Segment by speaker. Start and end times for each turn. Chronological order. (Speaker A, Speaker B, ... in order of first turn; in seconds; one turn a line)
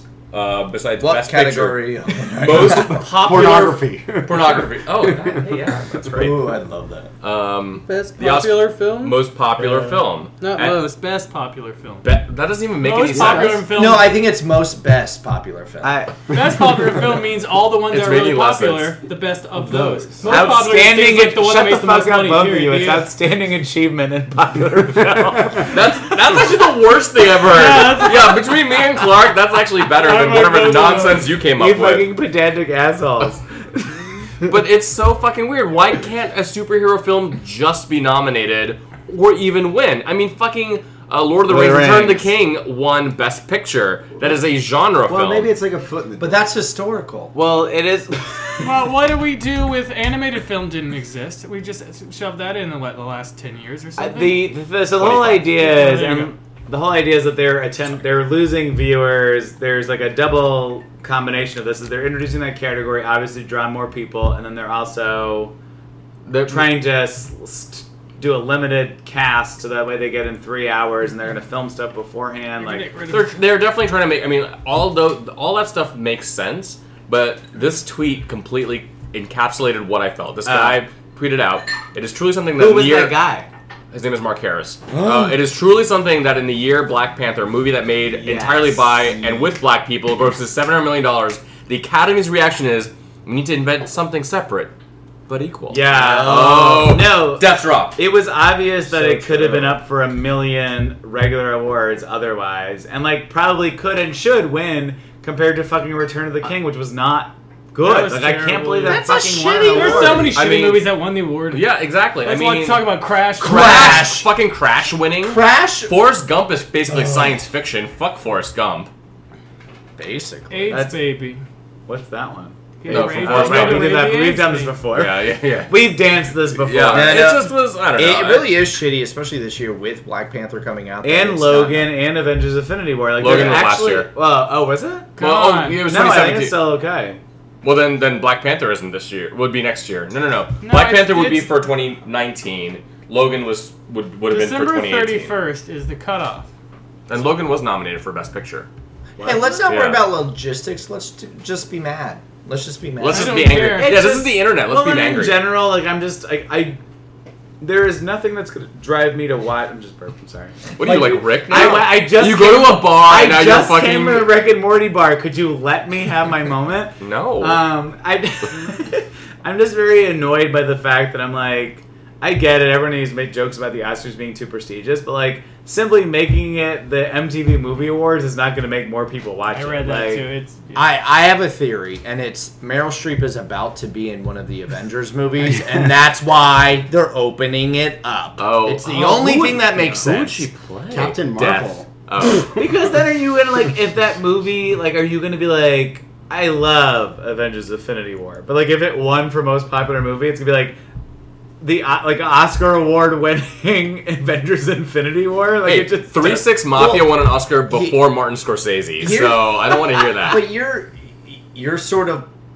Speaker A: 0.3-6.4
Speaker B: 1.0-3.2
Speaker C: 2.6-5.4
Speaker B: 6.1-7.1
Speaker A: 7.2-10.8
Speaker D: 7.8-9.2
Speaker D: 10.4-12.1
Speaker A: 12.0-13.7
Speaker D: 12.8-14.2
Speaker C: 13.1-13.6
Speaker B: 13.6-15.9
Speaker E: 15.8-16.3
Speaker D: 16.3-23.1
Speaker A: 17.9-18.9
Speaker E: 20.2-26.1
Speaker A: 20.2-20.5
Speaker A: 25.6-32.1
Speaker D: 27.4-28.5
Speaker D: 29.9-31.4
Speaker E: 31.5-34.5
Speaker A: 34.4-45.5
Speaker E: 41.5-42.3
Speaker C: 45.1-46.5
Speaker B: 46.2-47.3
Speaker E: 47.3-48.8
Speaker D: 48.6-54.6
Speaker E: 54.0-65.5
Speaker A: 55.0-55.6
Speaker D: 55.5-56.3
Speaker A: 66.2-66.7
Speaker E: 66.5-72.9
Speaker D: 72.6-73.3
Speaker A: 73.1-83.2
Speaker E: 80.4-80.8
Speaker E: 82.6-83.5
Speaker A: 83.9-94.7
Speaker E: 88.2-89.5
Speaker A: 95.3-98.0
Speaker E: 95.7-110.4
Speaker B: 95.9-96.9
Speaker A: 98.9-99.8
Speaker D: 107.8-109.1
Speaker B: 108.8-110.4
Speaker D: 109.7-111.7
Speaker A: 110.3-110.9
Speaker A: 111.5-112.9
Speaker D: 112.2-114.1
Speaker B: 113.4-114.3
Speaker A: 113.4-118.9
Speaker B: 115.2-115.9
Speaker B: 116.9-117.4
Speaker B: 120.0-120.8
Speaker D: 120.5-121.4
Speaker E: 120.7-121.0
Speaker E: 121.8-127.3
Speaker D: 122.8-124.8
Speaker A: 122.9-124.0
Speaker A: 124.9-128.7
Speaker B: 126.9-131.9
Speaker E: 131.0-135.2
Speaker A: 133.2-134.1
Speaker D: 135.2-135.9
Speaker A: 135.2-136.7
Speaker E: 135.8-137.2
Speaker A: 137.6-145.4
Speaker D: 140.6-141.5
Speaker D: 144.3-146.5
Speaker A: 147.1-148.7
Speaker E: 149.2-149.6
Speaker B: 149.2-153.6
Speaker A: 149.7-150.1
Speaker A: 153.0-155.6
Speaker D: 153.1-154.2
Speaker E: 153.7-156.8
Speaker E: 157.6-180.3
Speaker A: 160.8-164.3
Speaker B: 160.8-161.8
Speaker A: 167.0-167.7
Speaker D: 179.5-180.9
Speaker B: 180.7-190.5
Speaker A: 188.4-192.7
Speaker C: 190.9-191.9
Speaker E: 192.3-200.8
Speaker E: 201.6-206.5
Speaker A: 205.6-210.5
Speaker B: 206.7-208.0
Speaker B: 209.0-212.3